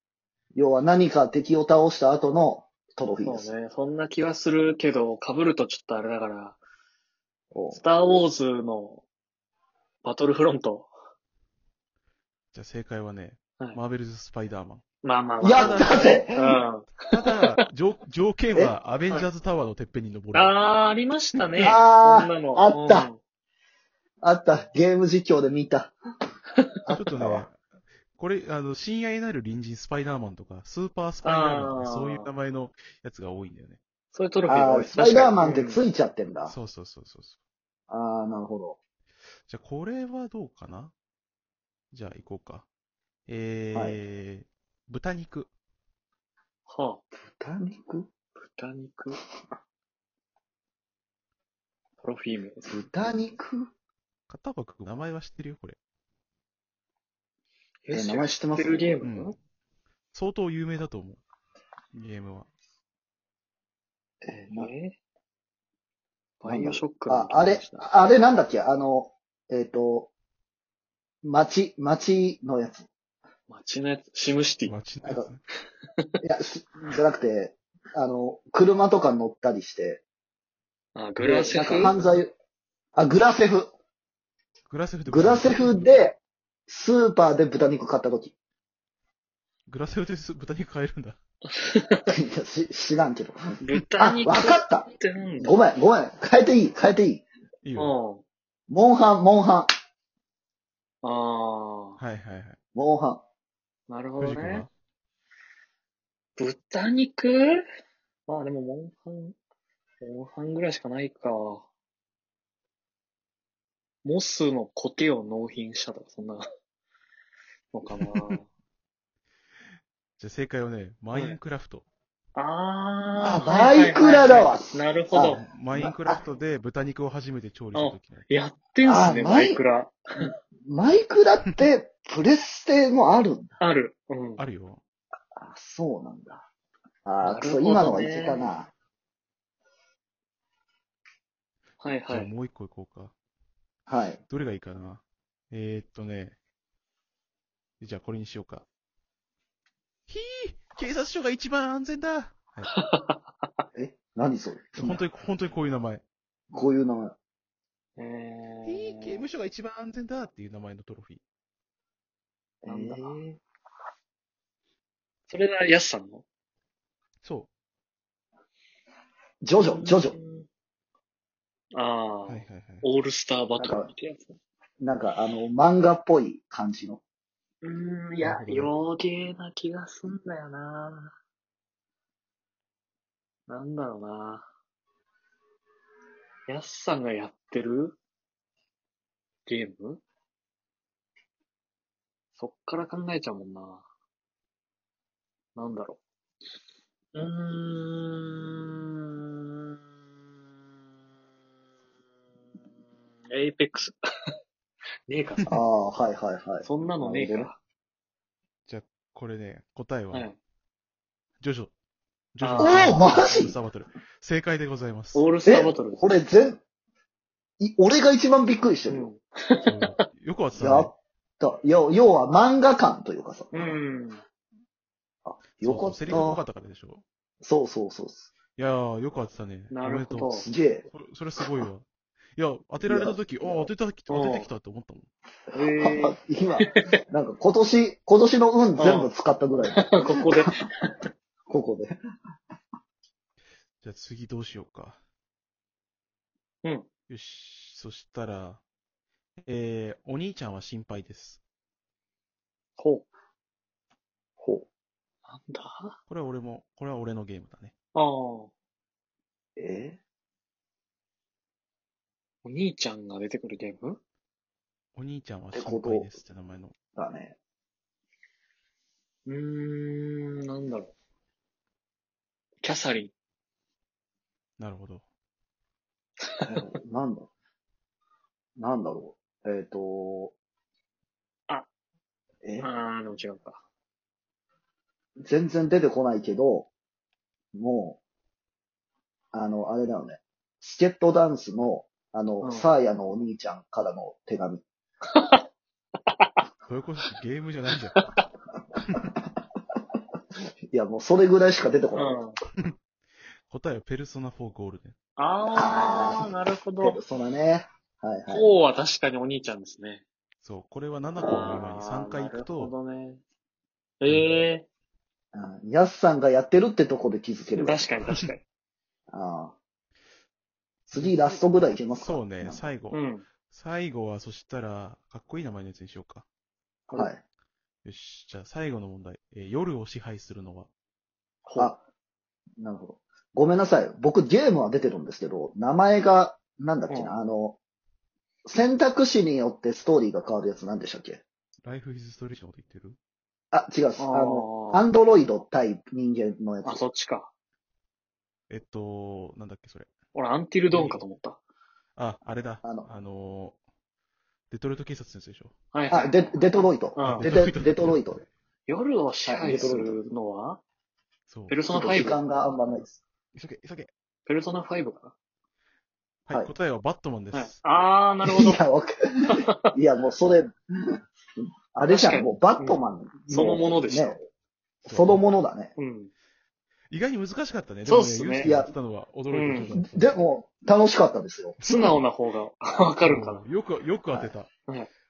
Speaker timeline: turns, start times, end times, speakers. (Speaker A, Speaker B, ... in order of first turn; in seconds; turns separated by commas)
Speaker A: 0.5-3.5, Speaker B: 3.2-6.6, Speaker A: 7.5-7.8, Speaker B: 7.7-9.0, Speaker B: 10.0-10.9, Speaker C: 12.5-14.8, Speaker B: 15.0-17.1, Speaker A: 15.4-16.6, Speaker C: 15.5-16.3, Speaker C: 17.1-20.5, Speaker B: 20.3-23.2, Speaker A: 21.6-23.1, Speaker A: 24.2-25.9, Speaker A: 26.9-27.5, Speaker C: 26.9-27.6, Speaker C: 28.1-33.8, Speaker B: 31.2-32.3, Speaker B: 34.1-35.8, Speaker A: 34.5-36.5, Speaker C: 36.5-37.4, Speaker A: 37.9-38.8, Speaker C: 39.5-40.9, Speaker C: 41.9-42.7, Speaker C: 43.3-45.5, Speaker A: 43.7-44.0, Speaker B: 46.7-47.0, Speaker A: 47.3-48.1, Speaker B: 48.4-49.2, Speaker B: 52.0-53.2, Speaker A: 52.7-53.7, Speaker C: 54.3-55.8, Speaker B: 57.9-59.4, Speaker A: 57.9-59.0, Speaker C: 59.0-59.4, Speaker C: 60.1-61.2, Speaker C: 61.9-62.5, Speaker A: 64.2-64.7, Speaker B: 64.5-65.0, Speaker B: 66.4-67.9, Speaker A: 66.4-70.1, Speaker A: 71.2-72.9, Speaker B: 73.5-74.8, Speaker C: 74.7-75.4, Speaker A: 76.2-80.0, Speaker B: 80.9-82.2, Speaker A: 81.2-82.3, Speaker A: 83.0-83.7, Speaker C: 84.7-85.8, Speaker A: 85.1-88.3, Speaker C: 89.7-91.2, Speaker B: 91.5-92.1, Speaker A: 92.1-93.4, Speaker B: 93.6-95.5, Speaker A: 94.0-94.9, Speaker A: 95.4-97.2, Speaker C: 97.6-98.0, Speaker B: 97.8-98.2, Speaker A: 98.7-99.7, Speaker B: 101.0-102.0, Speaker C: 102.0-102.6, Speaker A: 102.8-103.2, Speaker B: 103.9-104.7, Speaker C: 104.2-104.7, Speaker B: 106.4-107.6, Speaker B: 108.3-109.4, Speaker B: 110.0-111.7, Speaker B: 114.0-116.5, Speaker B: 117.7-118.5, Speaker C: 120.2-121.9, Speaker B: 121.1-121.4, Speaker B: 122.3-125.4, Speaker A: 123.2-126.2, Speaker C: 125.3-128.3, Speaker B: 127.7-130.3, Speaker A: 128.8-129.6, Speaker A: 130.7-133.6, Speaker B: 133.6-134.4, Speaker C: 134.4-134.8, Speaker A: 135.4-136.5, Speaker A: 137.1-138.7, Speaker B: 137.2-138.5, Speaker B: 141.8-142.3, Speaker C: 142.1-143.1, Speaker A: 143.9-144.2, Speaker C: 144.3-146.4, Speaker C: 147.8-148.7, Speaker C: 150.1-152.7, Speaker B: 152.7-153.2, Speaker A: 153.8-155.0, Speaker C: 154.8-156.0, Speaker A: 156.5-157.2, Speaker B: 158.0-159.2, Speaker C: 158.6-161.2, Speaker A: 162.6-163.4, Speaker B: 162.7-163.2, Speaker B: 165.3-166.2, Speaker C: 167.2-167.5, Speaker A: 169.4-170.2, Speaker B: 169.6-170.5, Speaker B: 171.7-174.4, Speaker C: 172.3-172.8, Speaker A: 173.6-173.9, Speaker A: 174.8-177.0, Speaker B: 177.6-181.2, Speaker C: 178.2-178.7, Speaker B: 183.5-184.5, Speaker B: 186.5-188.0, Speaker B: 189.4-190.0, Speaker B: 192.3-193.8, Speaker B: 195.6-196.0, Speaker B: 197.1-199.6, Speaker B: 203.3-204.3, Speaker B: 205.1-205.5, Speaker A: 205.5-207.5, Speaker B: 206.6-207.6, Speaker C: 208.7-210.3, Speaker B: 210.1-210.4, Speaker C: 211.4-211.7, Speaker C: 212.3-215.3, Speaker B: 212.4-213.0, Speaker A: 212.6-213.6, Speaker B: 215.1-216.1, Speaker A: 215.4-216.6, Speaker A: 217.6-219.1, Speaker B: 218.9-219.9, Speaker C: 219.6-220.9, Speaker A: 220.6-223.8, Speaker B: 223.5-224.2, Speaker A: 225.2-226.4, Speaker C: 225.6-227.0, Speaker A: 227.4-228.3, Speaker C: 228.6-235.1, Speaker B: 229.7-230.5, Speaker A: 230.4-230.8, Speaker A: 232.8-233.7, Speaker B: 234.1-234.5, Speaker A: 235.5-239.9, Speaker B: 235.5-236.2, Speaker B: 238.8-239.1, Speaker B: 239.7-241.0, Speaker A: 241.5-242.0, Speaker C: 243.8-245.0, Speaker C: 247.1-248.6, Speaker C: 249.4-251.4, Speaker B: 252.8-253.1, Speaker A: 254.4-254.7, Speaker B: 255.3-256.0, Speaker C: 256.1-257.7, Speaker B: 257.9-258.5, Speaker A: 259.6-260.0, Speaker B: 262.4-264.0, Speaker C: 264.9-266.8, Speaker A: 265.5-266.1, Speaker A: 266.9-267.4, Speaker B: 269.3-270.9, Speaker B: 272.6-273.1, Speaker C: 274.6-275.1, Speaker A: 276.4-277.3, Speaker A: 278.6-280.3, Speaker B: 282.6-283.6, Speaker A: 285.2-286.7, Speaker A: 287.5-288.0, Speaker A: 289.3-294.6, Speaker B: 292.4-292.7, Speaker B: 295.1-295.4, Speaker B: 296.1-296.4, Speaker C: 296.7-298.0, Speaker B: 297.9-298.2, Speaker C: 298.8-299.1, Speaker A: 300.7-302.2, Speaker B: 301.9-302.4, Speaker C: 303.5-304.9, Speaker B: 305.2-307.0, Speaker A: 305.4-308.5, Speaker B: 308.3-310.0, Speaker C: 310.4-312.7, Speaker B: 311.3-313.2, Speaker B: 314.0-314.7, Speaker C: 314.1-314.5, Speaker A: 315.3-317.9, Speaker B: 317.6-318.4, Speaker A: 319.1-319.6, Speaker C: 320.9-326.2, Speaker A: 320.9-322.7, Speaker B: 322.9-323.3, Speaker A: 326.9-327.2, Speaker C: 327.8-330.7, Speaker B: 331.4-331.7, Speaker A: 331.6-331.8, Speaker A: 332.6-337.6, Speaker B: 336.9-337.2, Speaker A: 338.4-341.2, Speaker C: 341.6-343.0, Speaker A: 343.5-346.8, Speaker B: 344.0-344.9, Speaker B: 346.6-347.3, Speaker C: 348.5-349.9, Speaker B: 350.1-351.4, Speaker C: 350.7-351.0, Speaker C: 351.9-353.6, Speaker A: 352.6-352.9, Speaker C: 354.5-355.5, Speaker B: 355.7-356.4, Speaker A: 355.9-358.2, Speaker B: 356.9-357.3, Speaker C: 357.0-358.2, Speaker B: 358.7-360.6, Speaker A: 359.2-360.1, Speaker C: 361.3-361.6, Speaker B: 361.5-362.2, Speaker A: 361.7-363.0, Speaker C: 363.3-363.9, Speaker B: 364.3-365.1, Speaker C: 366.3-367.6, Speaker B: 367.3-368.6, Speaker A: 368.2-370.6, Speaker A: 371.7-374.2, Speaker B: 371.8-374.2, Speaker A: 374.8-375.8, Speaker C: 374.9-375.2, Speaker B: 375.8-376.1, Speaker C: 376.9-380.2, Speaker B: 377.9-378.5, Speaker A: 378.4-378.7, Speaker B: 379.3-379.7, Speaker A: 379.6-381.6, Speaker C: 381.6-382.0, Speaker B: 381.6-383.4, Speaker C: 383.0-384.5